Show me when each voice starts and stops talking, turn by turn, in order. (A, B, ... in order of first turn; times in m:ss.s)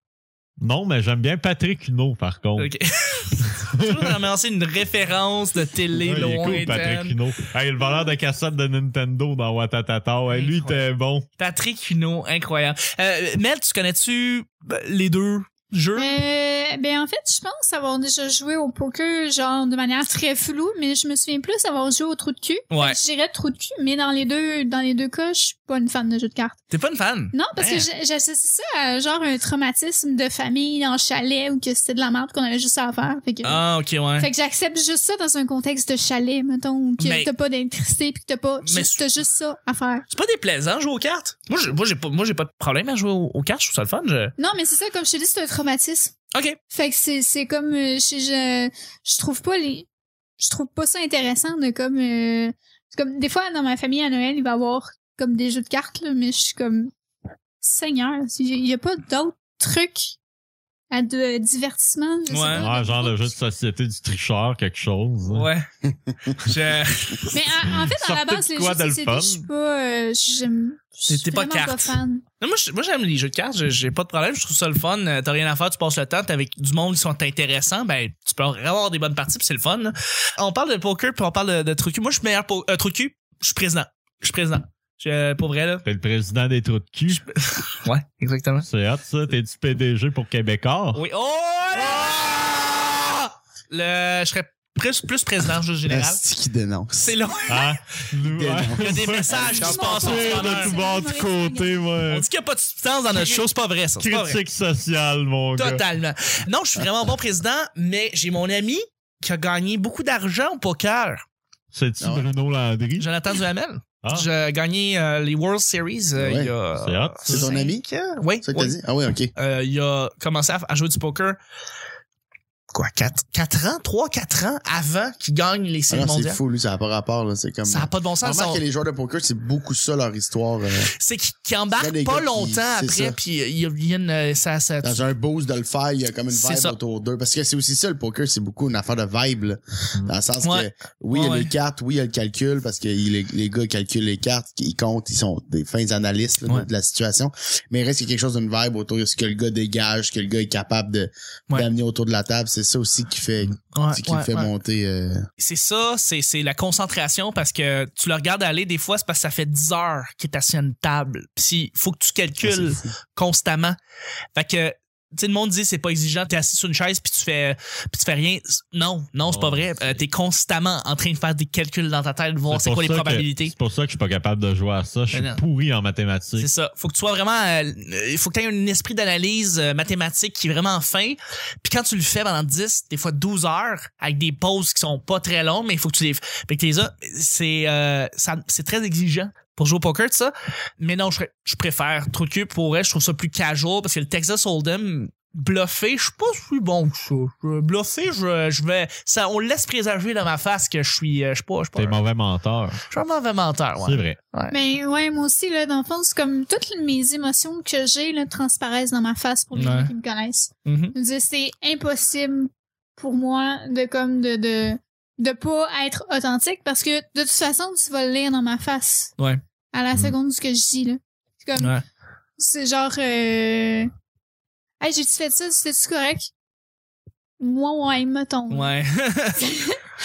0:00.6-0:02.7 A
0:02.6-0:07.2 B
0:03.4-0:03.7 A
0:05.9-0:11.2 A
0:10.3-0:10.8 B
0:11.4-0:16.2 B
0:15.9-0:26.6 C
0:22.7-0:23.0 B
0:26.7-0:27.9 B
0:27.3-0:33.6 C
0:33.4-0:34.3 B
0:34.2-0:40.0 C
0:37.0-0:37.3 B
0:38.6-0:39.0 B
0:40.1-0:44.3 B
0:44.4-0:46.1 C
0:46.7-0:49.9 C
0:50.4-0:56.9 C
0:57.6-1:00.2 C
1:00.9-1:03.3 C
1:02.3-1:02.7 B
1:02.5-1:05.5 A
1:05.3-1:05.7 B
1:05.8-1:06.4 D
1:06.4-1:07.4 B
1:07.3-1:12.2 C
1:07.7-1:09.5 A
1:11.1-1:25.8 B
1:25.8-1:27.2 A
1:27.1-1:28.7 B
1:28.6-1:31.0 A
1:30.9-1:32.4 B
1:31.7-1:32.6 A
1:33.7-1:36.2 B
1:35.9-1:37.2 D
1:37.0-1:37.8 B
1:37.5-1:42.2 A
1:38.3-1:40.0 D
1:38.8-1:40.8 B
1:39.6-1:41.8 C
1:42.0-1:44.4 B
1:43.1-1:43.4 A
1:44.0-1:45.8 A
1:45.6-1:51.2 B
1:51.7-1:53.3 A
1:52.0-1:52.3 D
1:53.0-1:58.8 B
1:56.2-1:56.5 D
1:56.8-1:57.5 A
1:57.3-1:57.8 D
1:58.4-1:59.3 D
1:59.4-2:01.4 B
2:02.7-2:06.4 B
2:05.9-2:10.9 D
2:07.6-2:08.6 B
2:11.0-2:15.0 B
2:11.8-2:13.2 D
2:14.8-2:35.3 D
2:16.3-2:16.8 B
2:20.4-2:21.5 B
2:33.7-2:34.5 B
2:35.4-2:43.8 B
2:42.4-2:42.9 D
2:44.3-2:53.5 B
2:49.2-2:50.0 A
2:52.5-2:56.5 A
2:55.1-2:55.4 B
2:56.4-3:22.0 B
3:21.8-3:22.8 A
3:22.9-3:24.6 B
3:23.8-3:24.2 A
3:24.5-3:39.1 C
3:29.5-3:29.9 B
3:30.6-3:30.9 B
3:39.7-3:41.8 C
3:42.4-3:43.9 C
3:44.8-3:46.3 C
3:47.4-3:48.8 C
3:48.5-3:49.6 B